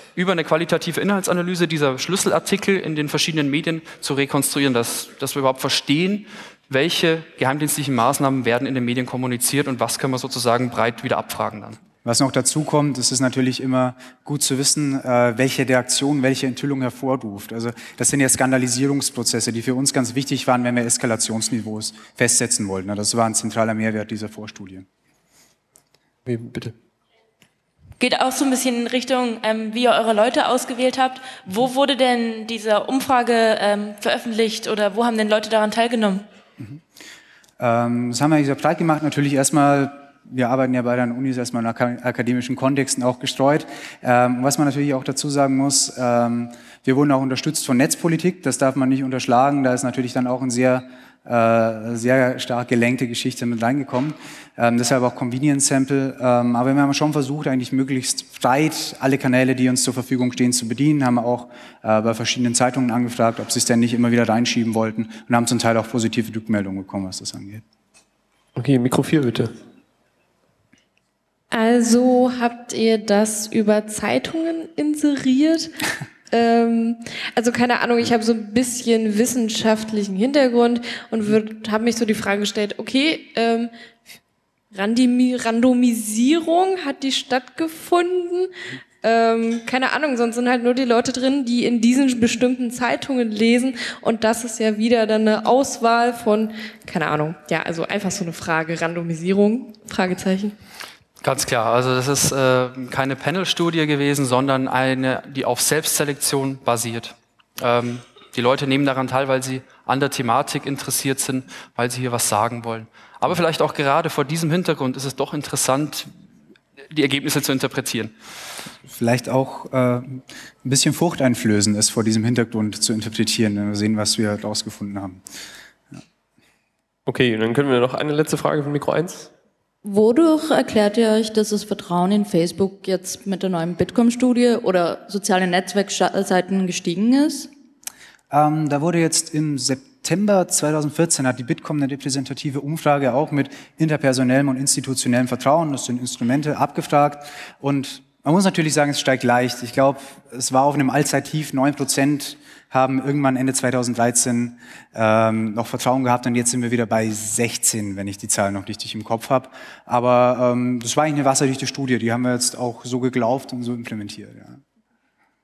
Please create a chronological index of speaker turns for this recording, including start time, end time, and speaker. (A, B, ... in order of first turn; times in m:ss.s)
0:00.1-0:11.8 A
0:12.0-0:24.9 B
0:26.3-0:26.7 C
0:28.0-0:36.3 D
0:37.6-1:07.6 B
1:08.6-1:09.5 C
1:11.5-1:15.7 E
1:16.3-1:23.7 E
1:24.7-1:40.6 E
1:41.2-1:56.1 A
1:56.9-1:58.1 A
1:58.9-2:05.2 B
2:07.1-2:09.3 C
2:09.8-2:17.5 F
2:18.3-2:44.6 B